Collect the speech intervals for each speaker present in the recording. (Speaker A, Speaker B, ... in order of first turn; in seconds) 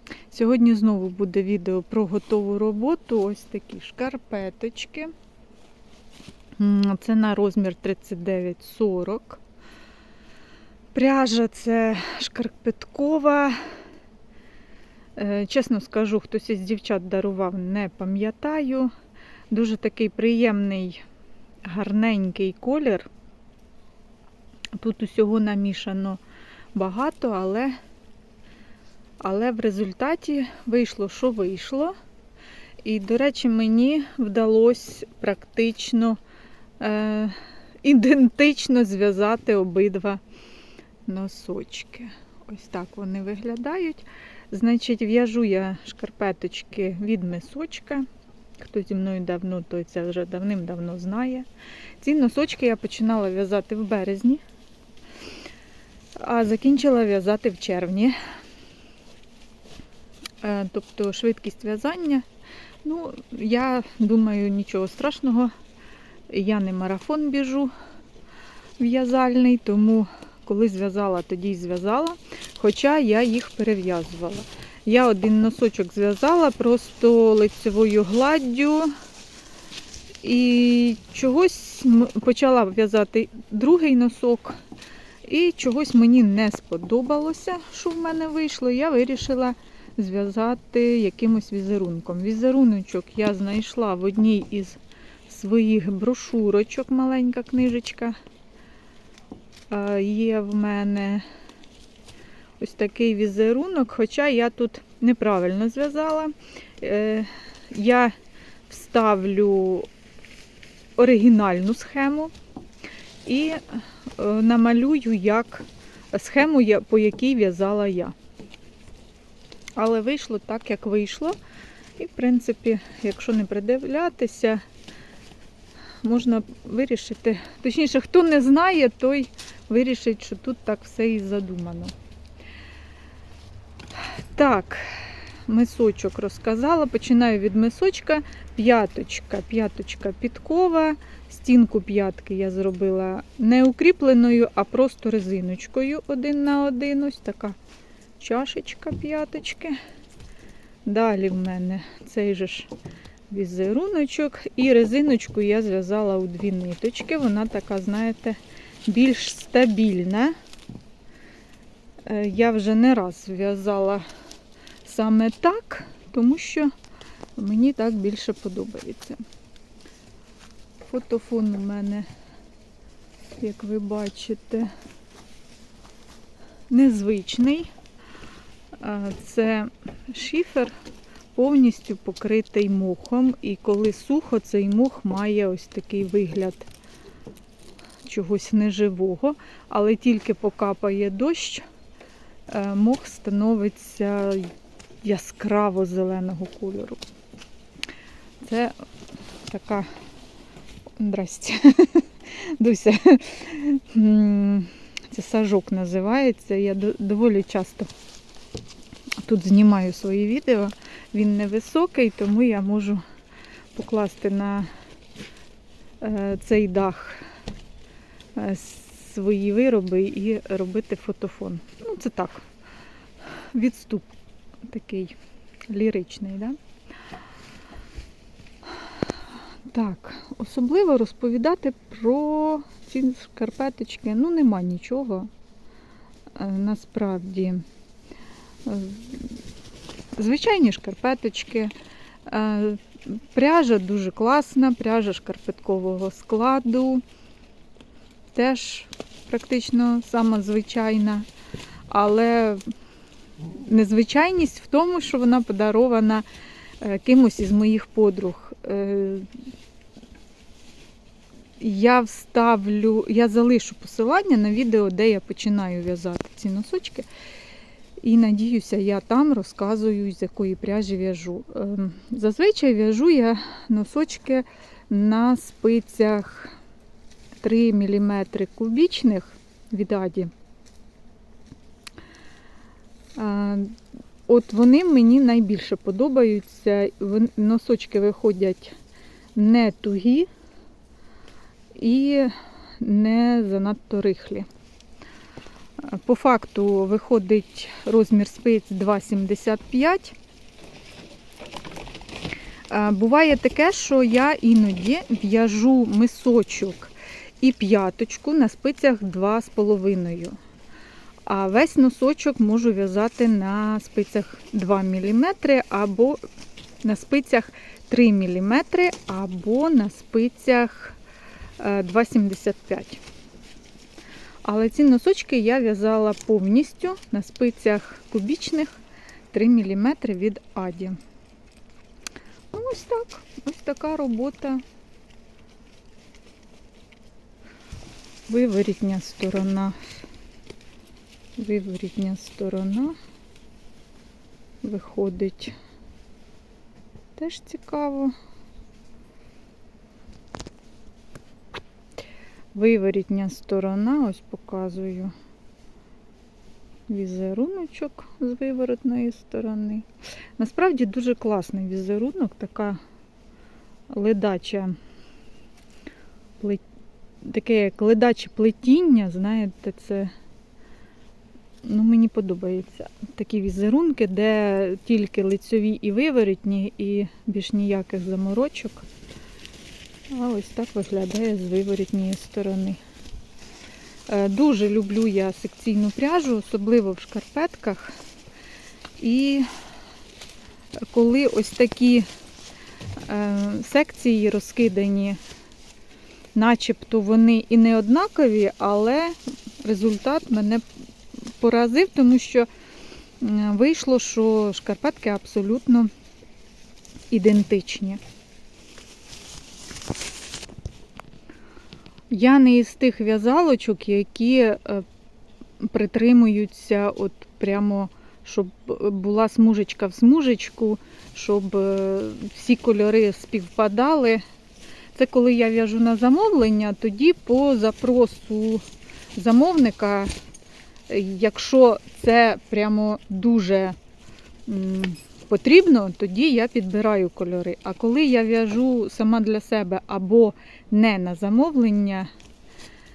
Speaker A: 0.3-5.1, 6.6-9.4, 10.9-13.6, 15.2-18.9, 19.5-21.0, 21.6-23.1, 24.8-26.2, 26.7-27.7, 29.2-31.9, 32.8-36.2, 36.8-40.2, 41.1-48.0, 48.6-51.5, 52.0-54.4, 56.2-58.1, 60.4-62.2, 62.8-65.5, 66.3-67.7, 68.8-78.9, 80.2-84.6, 85.2-98.2, 99.7-101.2, 102.6-108.1, 108.7-109.9, 111.0-112.3, 113.2-118.1, 119.8-121.3, 122.0-124.6, 126.0-131.9, 134.3-147.6, 148.2-149.8, 150.8-152.7, 153.3-160.3, 162.1-164.0, 164.8-166.7, 167.4-169.2, 170.8-172.1, 173.4-174.7, 176.7-177.7, 178.8-180.7, 181.3-186.7, 188.0-191.6, 192.5-194.5, 195.0-197.0, 198.4-198.8, 199.4-199.9, 201.0-207.9, 209.2-213.0, 213.7-214.7, 216.0-217.2, 218.3-222.4, 223.5-224.1, 224.7-225.2, 225.7-226.6, 229.7-235.3, 236.3-237.6, 238.6-239.3, 240.2-241.7, 242.3-247.0, 248.3-251.3, 251.9-252.6, 253.4-256.2, 256.8-259.3, 261.6-267.1, 268.0-276.6, 277.4-280.3, 283.1-283.8, 284.3-288.8, 289.3-290.3, 291.7-294.5, 295.8-300.1, 302.7-310.4, 311.2-316.2, 316.8-321.0, 321.6-323.0, 324.4-328.8, 329.3-331.0, 332.5-334.6, 338.3-340.0, 341.4-342.9, 344.6-345.5, 347.1-348.1, 352.5-355.1, 356.9-359.9, 360.4-362.8, 363.9-364.7, 367.2-370.1, 371.6-378.8, 380.1-382.8, 384.1-387.9, 389.0-389.5, 390.8-392.1, 393.0-395.2, 396.3-400.6, 401.4-402.5, 403.2-405.9, 407.1-408.0, 412.1-414.8, 415.6-424.2, 424.9-428.6, 429.1-430.1, 430.9-433.8, 434.5-442.1